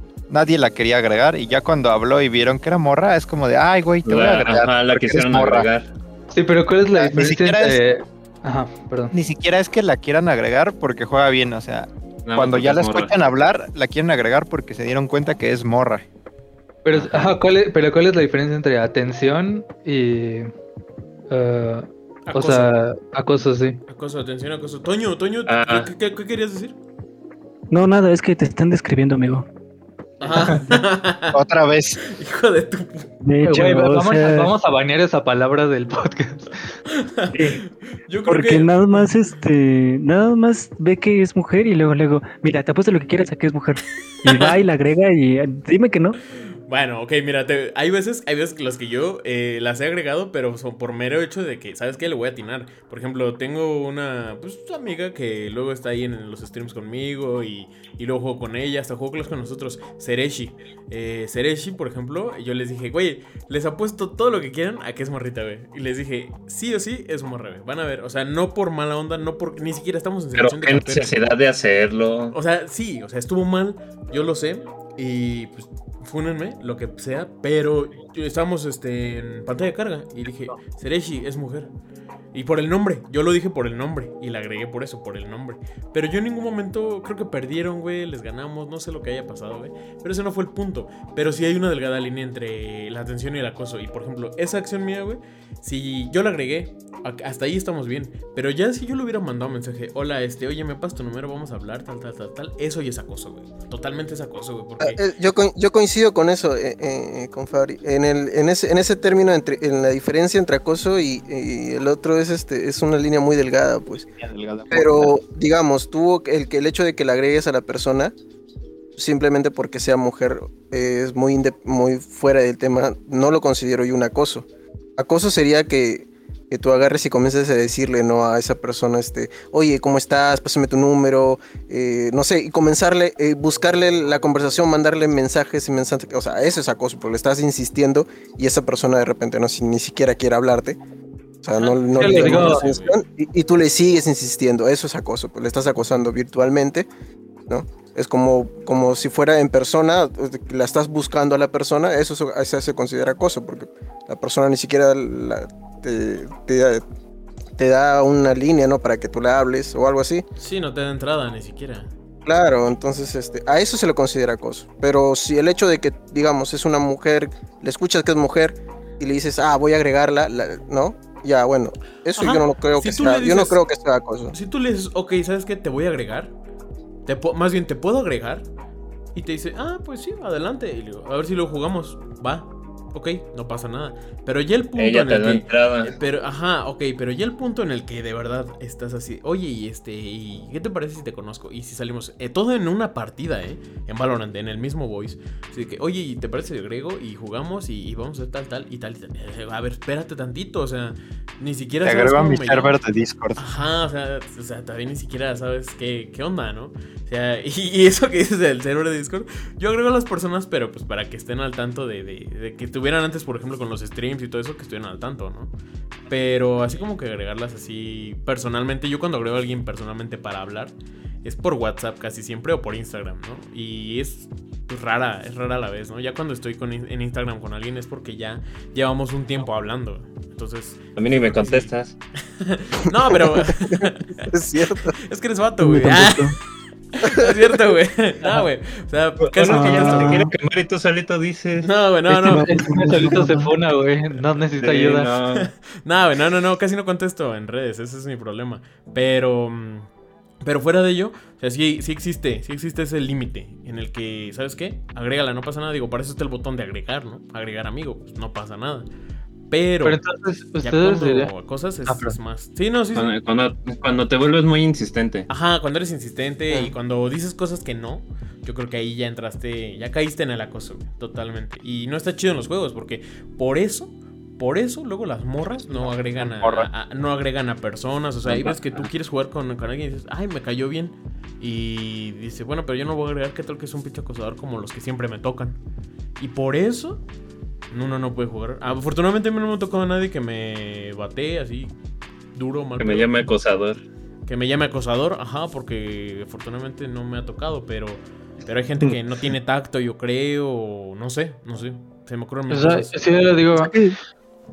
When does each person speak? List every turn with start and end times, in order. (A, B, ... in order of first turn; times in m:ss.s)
0:00.3-0:05.7 A
0:04.0-0:05.9 B
0:06.3-0:09.1 C
0:06.9-0:07.8 A
0:09.1-0:16.0 A
0:12.2-0:13.1 B
0:16.8-0:20.5 C
0:16.9-0:17.4 B
0:21.3-0:23.8 C
0:22.2-0:22.7 D
0:23.9-0:26.8 D
0:25.5-0:25.9 B
0:27.7-0:29.5 E
0:30.2-0:31.4 D
0:30.2-0:30.5 C
0:31.3-0:32.0 A
0:32.0-0:33.1 D
0:33.2-0:34.5 E
0:33.4-0:36.6 C
0:37.0-0:39.1 D
0:37.3-0:37.6 E
0:38.2-0:46.2 E
0:46.7-1:11.2 D
1:10.4-1:12.4 B
1:12.3-1:21.7 D
1:22.3-1:45.0 D
1:44.8-1:54.0 F
1:54.2-1:55.1 A
1:54.7-1:58.1 F
1:59.0-2:04.4 F
2:05.0-2:20.8 F
2:21.4-2:26.9 F
2:21.6-2:23.0 D
2:22.0-2:22.6 C
2:27.5-2:36.8 F
2:37.6-2:40.2 F
2:40.4-2:41.9 D
2:42.2-2:54.3 F
2:52.2-2:53.6 D
2:54.3-2:56.3 D
2:57.0-2:58.4 D
2:59.1-3:22.8 D
3:04.8-3:05.9 B
3:21.8-3:23.4 A
3:23.4-3:35.5 D
3:36.1-3:51.7 D
3:51.0-3:51.9 B
3:52.4-3:54.3 D
3:54.3-3:55.0 F
3:54.9-3:56.4 D
3:55.6-3:56.3 E
3:57.0-4:00.3 D
3:57.0-3:57.3 F
3:59.4-4:01.7 B
3:59.7-4:00.2 E
4:01.6-4:02.6 D
4:02.1-4:03.5 E
4:02.3-4:05.1 C
4:04.6-4:05.5 B
4:05.3-4:09.9 D
4:10.4-4:18.9 D
4:19.5-4:20.0 D
4:19.8-4:21.3 C
4:20.6-4:23.1 D
4:21.9-4:22.2 C
4:22.9-4:25.3 B
4:25.3-4:45.6 D
4:36.2-4:36.7 A
4:38.3-4:38.8 B
4:46.2-4:47.0 D
4:47.7-4:51.7 D
4:52.3-4:53.2 D
4:52.8-4:53.8 B
4:54.2-5:03.2 D
5:02.5-5:03.7 C
5:03.6-5:03.9 E